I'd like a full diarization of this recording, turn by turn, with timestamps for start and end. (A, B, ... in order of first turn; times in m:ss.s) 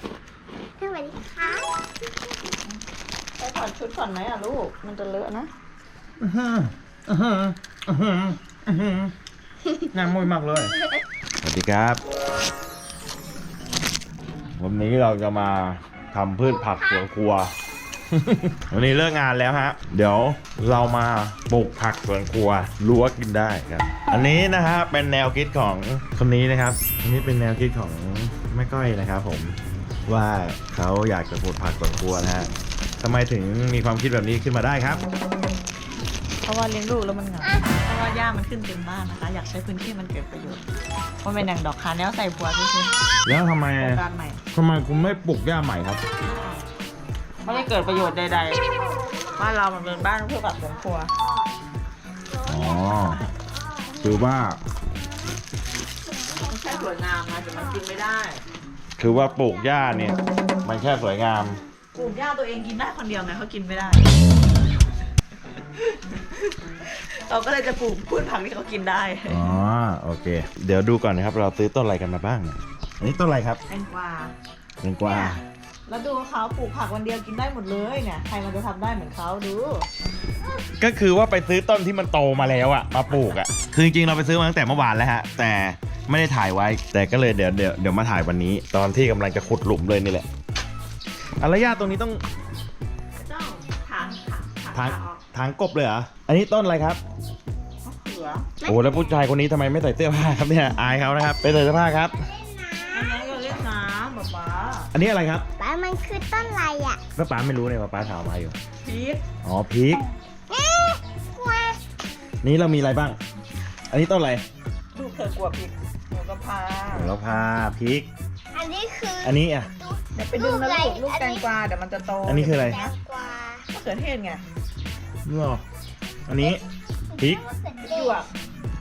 0:00.8-0:01.7 A
0:03.4-0:05.5 B
0:06.2-0:09.1 C
0:09.9-0:10.8 C
0:11.4-0:12.0 C
0:14.6-0:17.5 C
0:18.1-0:35.0 C
0:36.4-0:40.6 B
0:41.2-0:42.9 B
0:43.2-0:44.0 C
0:43.8-0:44.4 B
0:44.5-0:46.0 C
0:46.2-0:46.7 B
0:47.4-0:48.6 B
0:47.5-0:49.5 A
0:49.4-0:51.1 B
0:51.2-0:51.5 A
0:52.3-0:54.2 A
0:52.5-0:53.2 C
0:54.0-0:54.6 C
0:56.1-0:56.9 A
0:56.4-0:58.4 B
0:59.0-1:01.6 C
1:01.9-1:04.3 B
1:05.6-1:09.5 B
1:09.3-1:13.6 C
1:13.7-1:14.3 B
1:14.8-1:15.4 C
1:15.0-1:19.9 B
1:20.8-1:30.3 C
1:23.1-1:23.4 B
1:31.4-1:32.2 C
1:33.2-1:35.2 B
1:34.7-1:37.0 C
1:37.8-1:38.5 B
1:38.6-1:39.0 A
1:38.6-1:42.3 C
1:42.2-1:43.3 A
1:42.9-1:44.9 B
1:44.9-1:45.5 C
1:45.6-1:47.0 A
1:47.2-1:48.6 C
1:48.8-1:49.2 B
1:49.4-1:50.0 C
1:50.5-1:51.8 A
1:52.4-1:53.2 C
1:53.9-1:54.4 C
1:55.0-1:57.2 B
1:56.9-1:58.1 C
1:58.5-2:01.5 A
1:59.2-1:59.7 C
2:00.2-2:02.9 B
2:02.3-2:02.8 C
2:02.5-2:03.7 A
2:03.7-2:04.4 B
2:05.3-2:05.6 C
2:06.3-2:06.6 C
2:07.1-2:08.3 A
2:07.9-2:08.3 B